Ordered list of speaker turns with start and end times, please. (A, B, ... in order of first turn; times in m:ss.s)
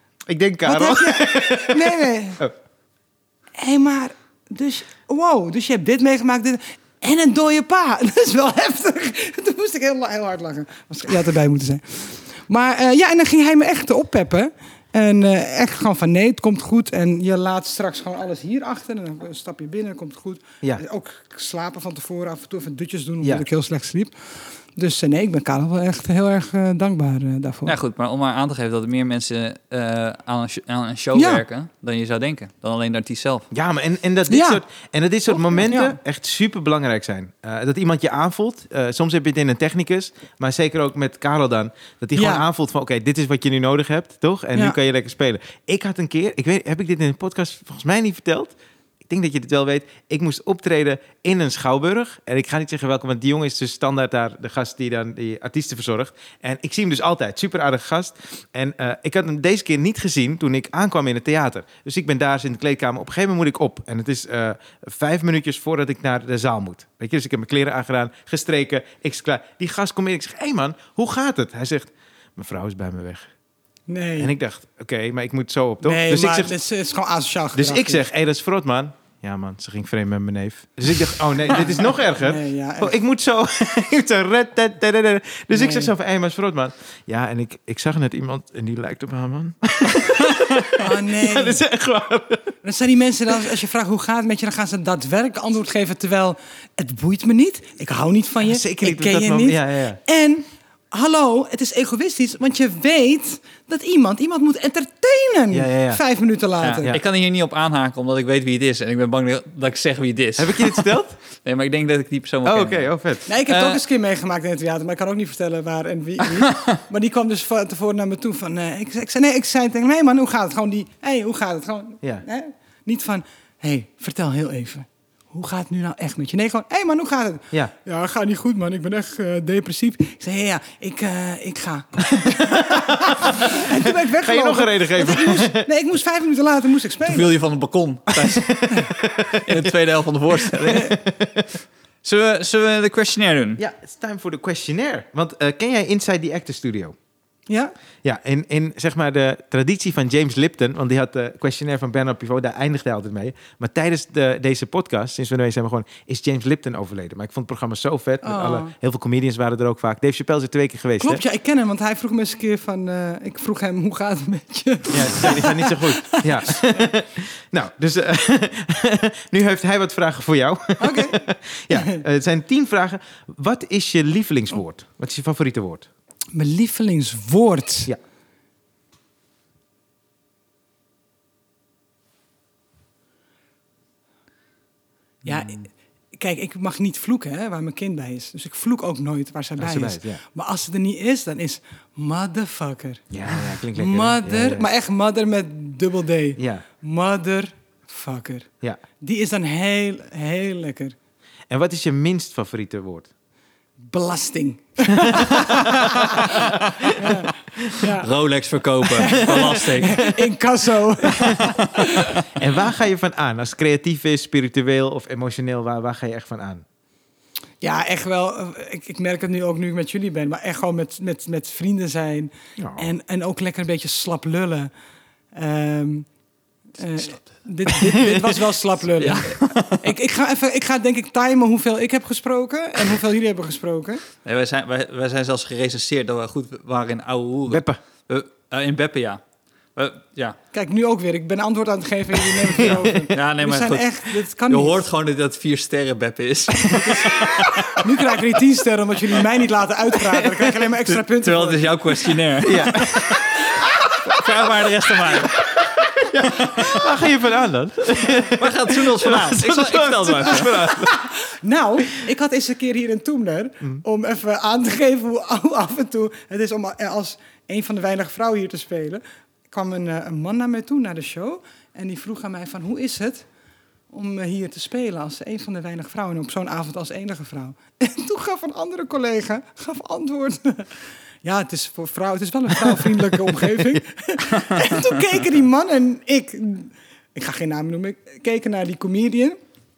0:00.3-0:02.5 A
0:00.6-0:02.4 B
0:03.6-0:24.1 B
0:24.7-0:27.8 B
0:27.6-0:33.4 C
0:31.1-0:31.4 B
0:33.5-0:48.5 A
0:34.3-0:34.6 B
0:35.3-0:36.0 B
0:42.2-0:42.4 B
0:49.1-1:13.3 A
1:13.9-1:14.3 B
1:14.2-1:16.5 A
1:15.8-1:18.0 B
1:17.5-1:32.6 A
1:21.4-1:22.9 B
1:25.5-1:25.9 B
1:30.8-1:31.6 B
1:32.6-1:47.0 B
1:38.4-1:40.0 A
1:45.5-1:46.0 A
1:46.6-1:53.8 C
1:50.4-1:51.2 A
1:52.4-1:53.2 A
1:53.3-2:17.3 B
2:12.3-2:15.7 A
2:17.0-2:18.7 C
2:18.2-2:19.7 A
2:19.4-2:21.0 C
2:20.4-2:21.4 A
2:22.0-2:23.6 C
2:23.6-2:26.9 A
2:28.0-2:41.2 A
2:38.2-2:38.7 B
2:41.0-2:46.6 B
2:44.9-2:55.9 A
2:50.8-2:52.0 B
2:56.3-2:57.9 B
3:05.2-3:21.0 B
3:09.6-3:10.2 A
3:13.1-3:14.6 A
3:16.4-3:16.6 A
3:21.5-3:23.1 A
3:23.9-3:28.1 B
3:24.9-3:25.4 A
3:26.2-3:27.1 A
3:28.0-3:30.2 C
3:28.9-3:32.2 B
3:31.0-3:31.5 A
3:32.3-3:36.6 A
3:37.6-3:44.7 B
3:42.6-3:42.9 A
3:45.3-3:46.1 B
3:46.8-3:54.0 B
3:47.7-3:48.4 A
3:49.0-3:49.9 C
3:54.2-3:59.2 C
3:57.5-3:57.8 A
3:59.7-4:00.4 C
4:00.5-4:04.8 B
4:02.3-4:03.1 A
4:02.6-4:07.8 C
4:07.0-4:07.6 A
4:07.8-4:11.8 B
4:10.9-4:12.8 C
4:12.4-4:14.3 A
4:13.0-4:13.6 B
4:14.1-4:15.4 C
4:15.5-4:21.0 A
4:16.5-4:16.8 C
4:18.0-4:20.6 C
4:20.4-4:33.3 B
4:33.9-4:40.7 B
4:41.2-4:49.4 B
4:42.7-4:43.8 A